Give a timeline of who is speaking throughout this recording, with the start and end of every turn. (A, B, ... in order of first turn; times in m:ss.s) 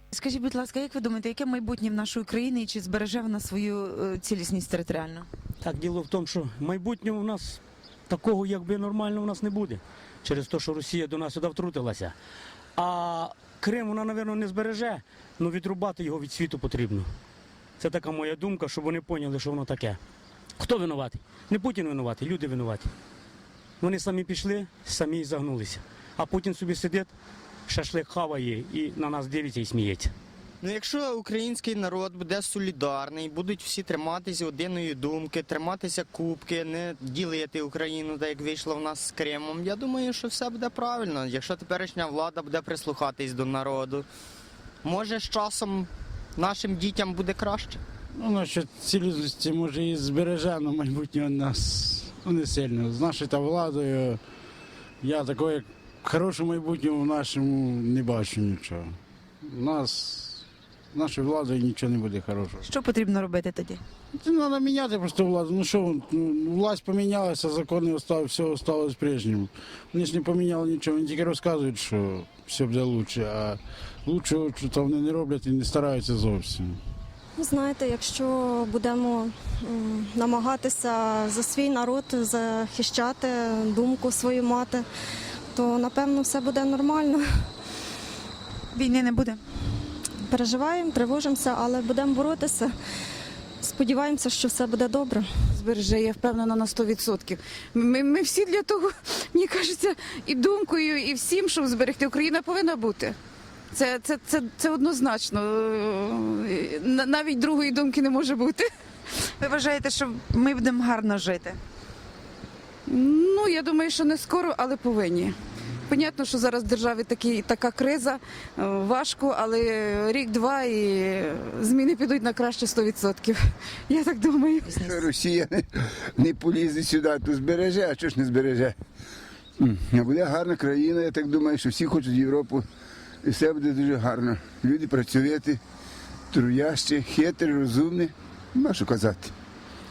0:00.1-0:05.3 A
0:05.6-0:12.1 B
0:12.8-0:17.1 B
0:17.8-0:20.0 B
0:20.6-0:22.9 B
0:23.8-0:27.1 B
0:27.7-0:30.1 B
0:30.6-0:44.0 C
0:44.8-0:47.8 C
0:48.2-0:54.2 D
0:55.0-1:02.6 D
1:02.7-1:03.8 A
1:04.2-1:16.8 D
1:17.4-1:24.8 E
1:25.5-1:27.2 E
1:28.7-1:29.4 A
1:30.3-1:32.7 E
1:33.6-1:35.3 E
1:35.5-1:43.2 F
1:43.7-1:48.7 F
1:49.4-1:51.6 A
1:52.9-1:55.4 F
1:55.9-2:05.0 F
2:04.7-2:08.7 G
2:09.6-2:12.6 G
2:13.2-2:15.6 G
2:16.3-2:19.3 G